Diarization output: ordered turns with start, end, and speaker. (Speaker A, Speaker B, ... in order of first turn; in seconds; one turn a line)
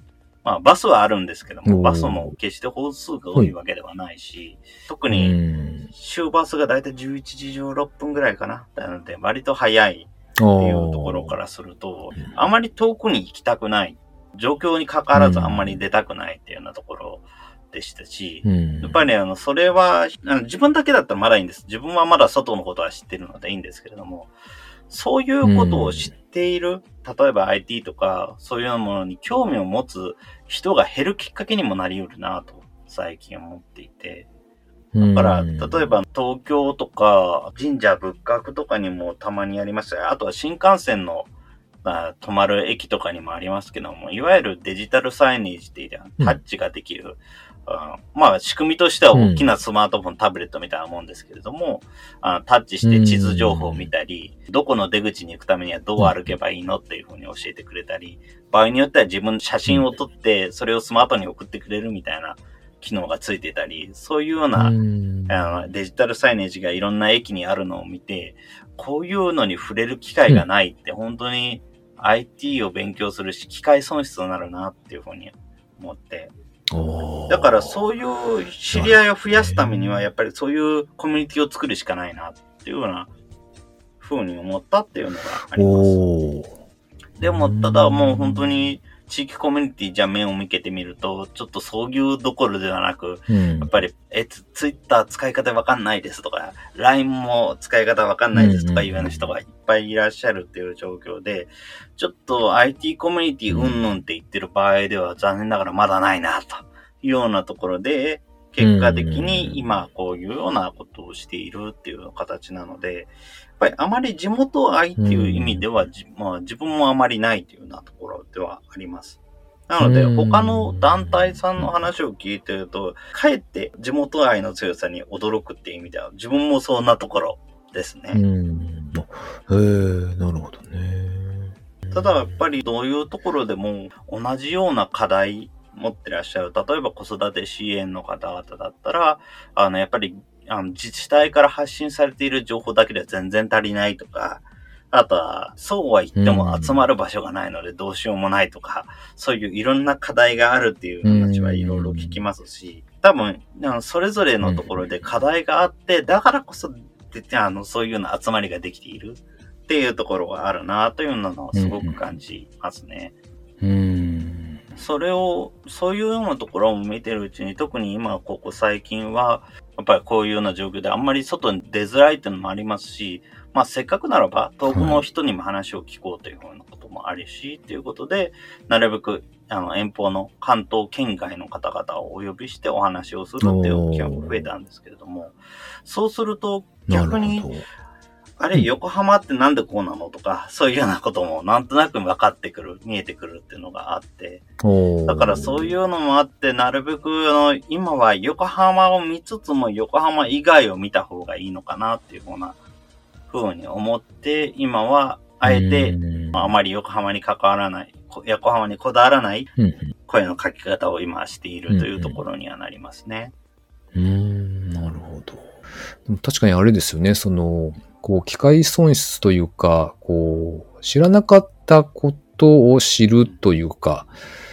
Speaker A: 0.4-5.3
Speaker B: 1.6-2.3
Speaker B: 5.1-5.9
Speaker A: 5.9-24.3
Speaker B: 10.4-11.3
Speaker B: 15.1-15.8
Speaker B: 18.4-19.0
Speaker A: 24.9-34.3
Speaker B: 25.4-26.1
Speaker B: 34.9-35.9
Speaker A: 35.0-41.3
Speaker A: 41.8-64.8
Speaker B: 49.1-49.5
Speaker B: 52.8-53.9
Speaker B: 64.6-65.6
Speaker A: 65.3-76.3
Speaker B: 76.7-77.8
Speaker A: 77.3-83.1
Speaker B: 78.7-80.0
Speaker A: 84.0-86.0
Speaker B: 85.5-86.5
Speaker A: 87.2-128.2
Speaker B: 87.2-88.7
Speaker B: 93.3-93.7
Speaker B: 98.3-99.3
Speaker B: 103.5-103.8
Speaker B: 108.6-109.6
Speaker B: 115.0-115.6
Speaker B: 119.8-121.7
Speaker B: 128.1-131.5
Speaker A: 131.9-163.1
Speaker B: 146.2-146.8
Speaker B: 151.0-152.2
Speaker B: 154.4-154.8
Speaker B: 161.5-162.0
Speaker B: 163.6-164.6
Speaker A: 164.8-187.6
Speaker B: 174.7-175.0
Speaker B: 183.4-184.4
Speaker B: 186.9-187.6
Speaker A: 188.4-194.4
Speaker B: 194.6-195.7
Speaker A: 195.1-202.6
Speaker A: 203.3-209.5
Speaker B: 205.4-206.5
Speaker B: 209.6-209.9
Speaker A: 210.0-213.3
Speaker B: 211.7-212.2
Speaker B: 213.9-224.1